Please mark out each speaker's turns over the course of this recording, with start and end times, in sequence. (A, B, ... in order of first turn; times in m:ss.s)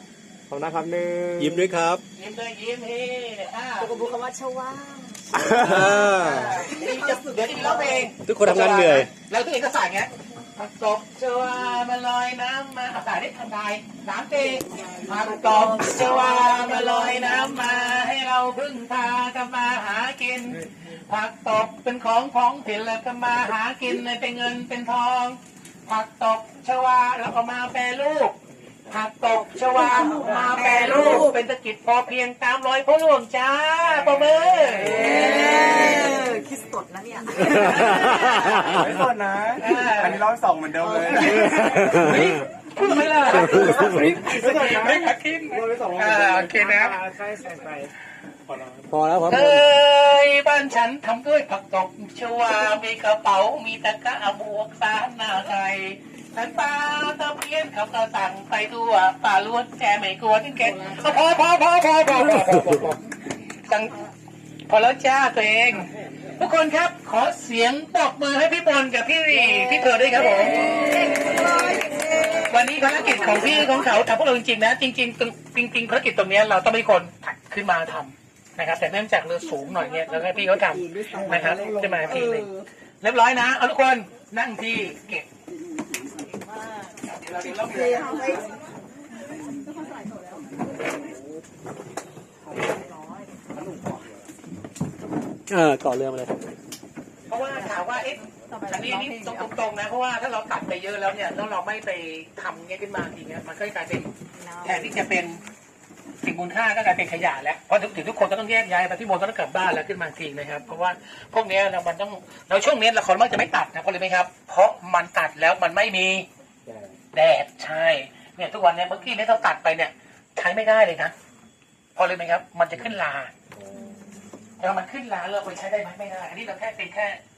0:00.5-0:01.7 A
0:01.4-0:02.0 B
0:02.1-0:04.1 C
0:03.8-0:08.1 D
0:05.3-0:06.6 B
0:05.6-0:05.9 A
0:06.1-0:28.4 C
0:08.2-0:09.1 B
0:15.1-0:17.7 D
0:28.9-0:35.4 C
0:30.0-0:31.3 D
0:34.8-0:38.5 D
0:35.0-0:35.5 A
0:37.4-0:38.8 C
0:37.7-0:38.9 B
0:38.6-0:41.6 A
0:39.6-0:40.2 C
0:40.8-0:41.4 D
0:41.1-0:47.0 C
0:41.6-0:42.4 B
0:43.3-0:44.1 B
0:43.4-0:47.9 A
0:48.5-0:48.8 A
0:48.9-0:49.7 B
0:49.3-1:03.0 C
1:03.7-1:04.1 C
1:04.7-1:11.0 C
1:10.3-1:13.7 D
1:12.4-1:25.3 C
1:20.9-1:22.4 A
1:21.5-1:22.5 D
1:26.2-1:26.9 D
1:27.0-1:28.4 C
1:27.6-1:28.6 D
1:30.0-1:30.4 D
1:32.7-1:33.3 D
1:35.5-1:36.4 B
1:37.3-1:45.4 C
1:37.5-1:39.5 D
1:44.3-1:45.0 D
1:46.2-1:56.3 C
1:56.7-1:56.9 A
1:57.1-2:01.1 C
2:02.0-2:03.3 C
2:03.8-2:04.1 D
2:04.6-2:07.2 C